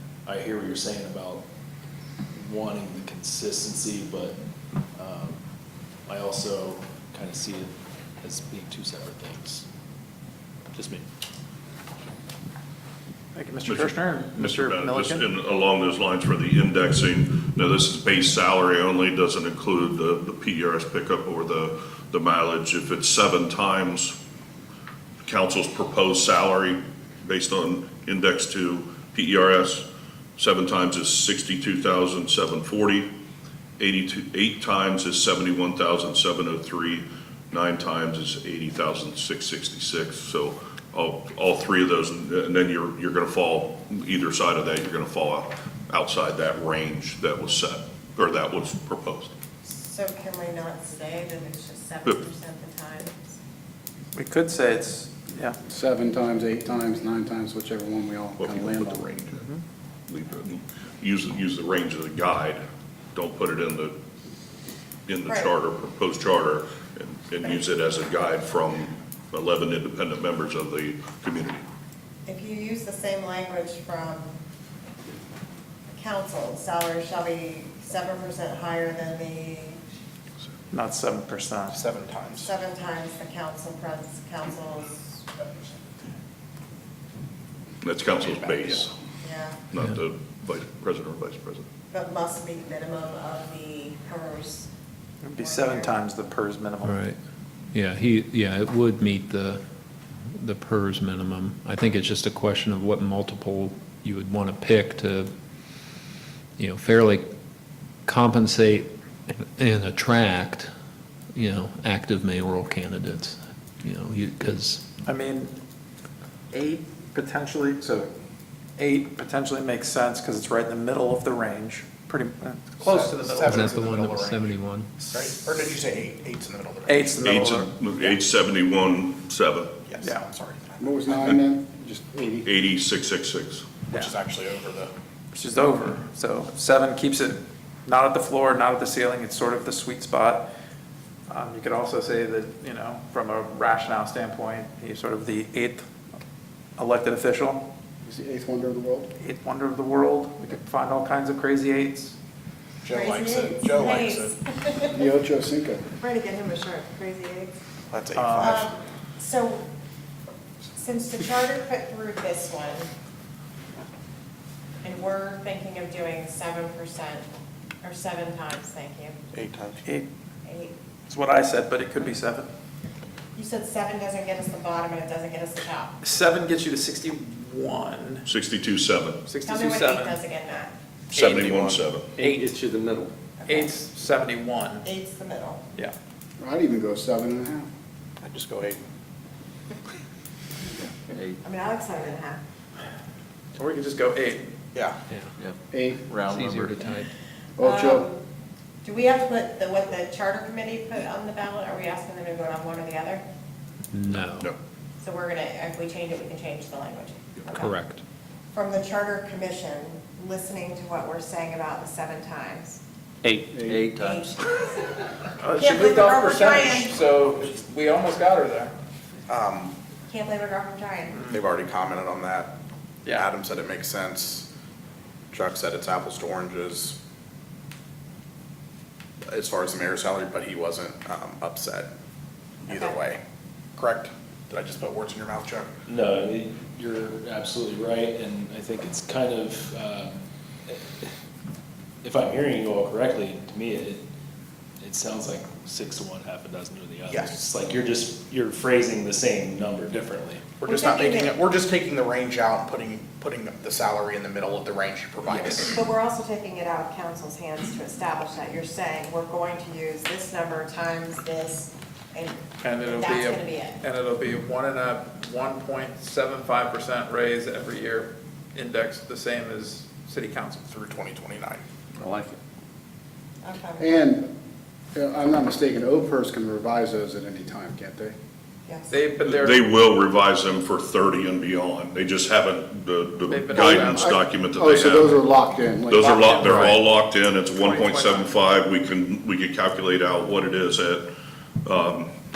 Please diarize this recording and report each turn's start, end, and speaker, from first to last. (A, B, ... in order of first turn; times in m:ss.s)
0:00.2-0:01.5 A
0:02.3-0:04.4 A
0:05.0-0:05.4 A
0:06.1-0:09.7 A
0:10.7-0:11.1 A
0:13.3-0:15.2 B
0:13.7-0:24.2 C
0:25.2-0:29.9 C
0:30.4-0:33.1 C
0:33.8-0:49.3 C
0:49.6-0:53.4 D
0:54.2-0:55.6 B
0:55.7-0:59.2 E
0:58.4-0:59.5 C
1:00.1-1:02.6 C
1:03.1-1:04.0 C
1:05.1-1:11.6 C
1:05.2-1:05.6 D
1:12.3-1:14.4 D
1:15.9-1:19.8 D
1:20.7-1:21.8 B
1:21.7-1:22.5 F
1:22.4-1:25.2 D
1:27.8-1:28.9 C
1:28.1-1:28.9 F
1:29.2-1:29.6 D
1:29.7-1:31.7 C
1:31.9-1:34.7 D
1:35.2-1:37.0 B
1:35.4-1:36.0 D
1:36.8-1:37.2 G
1:37.7-1:39.6 G
1:40.4-1:45.3 G
1:46.6-1:47.3 G
1:48.0-1:50.7 G
1:51.3-1:54.8 G
1:55.1-1:55.6 B
1:56.5-1:58.1 B
1:58.8-2:03.6 B
2:02.8-2:04.5 F
2:03.5-2:04.9 G
2:05.1-2:07.3 F
2:06.9-2:07.7 B
2:07.2-2:09.8 C
2:09.9-2:11.4 F
2:10.0-2:10.3 B
2:10.8-2:12.5 E
2:12.4-2:13.8 C
2:13.9-2:14.9 F
2:15.3-2:20.5 B
2:21.3-2:25.9 B
2:26.8-2:27.7 B
2:28.0-2:29.1 E
2:29.2-2:32.2 B
2:32.8-2:34.3 F
2:32.9-2:35.1 D
2:34.9-2:35.8 E
2:36.0-2:37.6 D
2:37.9-2:38.7 F
2:38.1-2:38.6 B
2:38.4-2:39.6 D
2:40.8-2:42.9 D
2:44.8-2:47.3 D
2:47.8-2:49.2 D
2:49.3-2:49.8 F
2:50.4-2:50.8 D
2:51.1-2:52.5 B
2:53.4-2:56.0 D
2:56.0-2:58.3 B
2:58.3-2:59.2 C
2:59.3-3:00.2 B
2:59.4-3:00.7 D
3:01.1-3:02.1 C
3:01.2-3:01.8 F
3:02.2-3:02.6 B
3:02.2-3:03.1 H
3:03.4-3:03.8 D
3:03.5-3:04.9 B
3:04.8-3:05.6 D
3:06.4-3:07.7 E
3:08.2-3:08.8 F
3:11.4-3:12.4 D
3:13.6-3:14.5 B
3:15.7-3:16.1 E
3:16.1-3:16.7 H
3:16.3-3:17.1 G
3:17.6-3:18.1 E
3:17.6-3:18.2 D
3:18.8-3:23.2 D
3:23.9-3:24.5 G
3:25.0-3:27.7 D
3:27.5-3:28.0 G
3:28.5-3:32.8 D
3:33.2-3:34.1 H
3:33.5-3:33.9 E
3:33.9-3:35.0 D
3:35.4-3:38.7 B
3:35.5-3:37.0 D
3:39.3-3:39.8 F
3:40.1-3:41.3 D
3:41.2-3:42.5 F
3:43.1-3:44.5 F
3:45.3-3:47.0 F
3:49.3-3:51.9 F
3:52.6-3:53.2 F
3:52.7-3:53.0 D
3:53.8-3:55.7 F
3:55.9-4:01.1 A
4:02.0-4:04.1 A
4:04.8-4:10.5 A
4:07.1-4:07.4 F
4:10.6-4:15.8 F
4:10.7-4:11.3 D
4:15.3-4:23.8 D
4:22.6-4:30.6 B
4:30.7-4:31.6 F
4:33.4-4:33.9 D
4:33.8-4:34.3 E
4:34.9-4:38.2 E
4:38.7-4:39.0 D
4:38.9-4:39.7 B
4:39.4-4:45.2 C
4:43.3-4:44.2 B
4:43.5-4:46.8 E
4:45.9-4:51.1 C
4:46.1-4:46.8 B
4:47.5-4:48.4 B
4:51.6-4:52.1 C